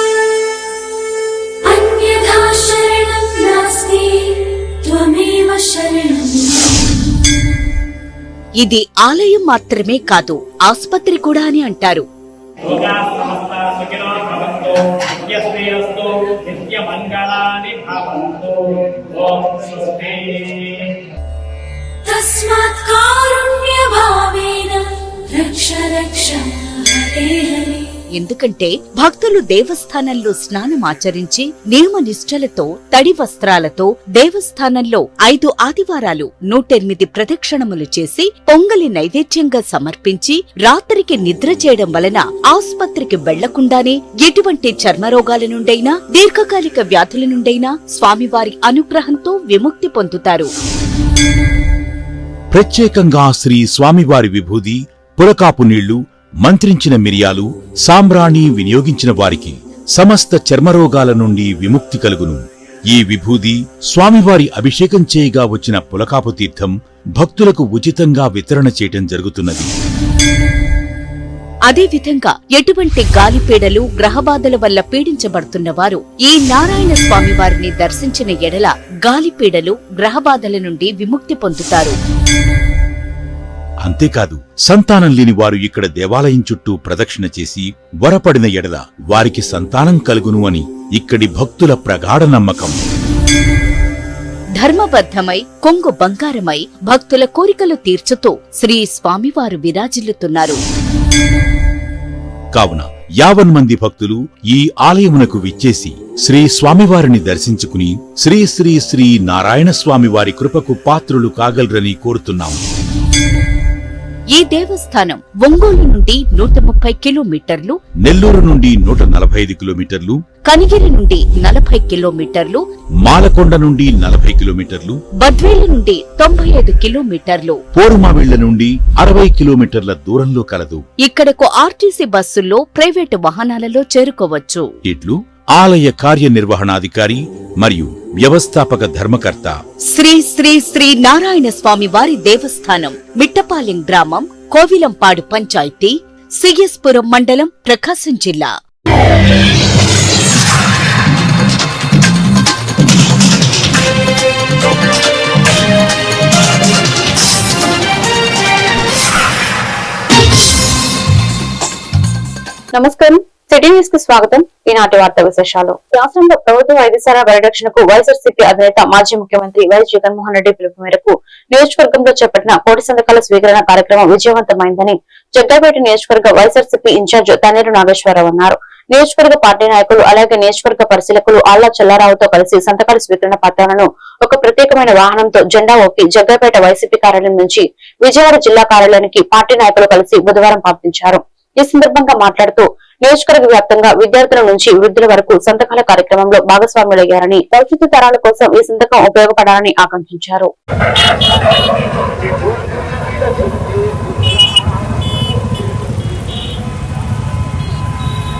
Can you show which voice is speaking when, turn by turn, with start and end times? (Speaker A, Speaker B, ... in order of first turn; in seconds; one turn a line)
Speaker A: 1.7-6.7
Speaker B: 8.6-12.1
Speaker A: 22.0-27.9
Speaker B: 28.1-50.5
Speaker C: 52.5-69.7
Speaker B: 71.7-82.0
Speaker C: 83.8-92.8
Speaker B: 94.6-100.6
Speaker C: 102.5-112.6
Speaker B: 114.3-117.8
Speaker C: 118.0-120.2
Speaker B: 120.5-122.6
Speaker C: 123.0-125.0
Speaker B: 125.2-127.6
Speaker C: 127.7-130.8
Speaker B: 131.0-134.7
Speaker C: 134.8-139.6
Speaker B: 139.9-148.5
Speaker D: 162.7-200.5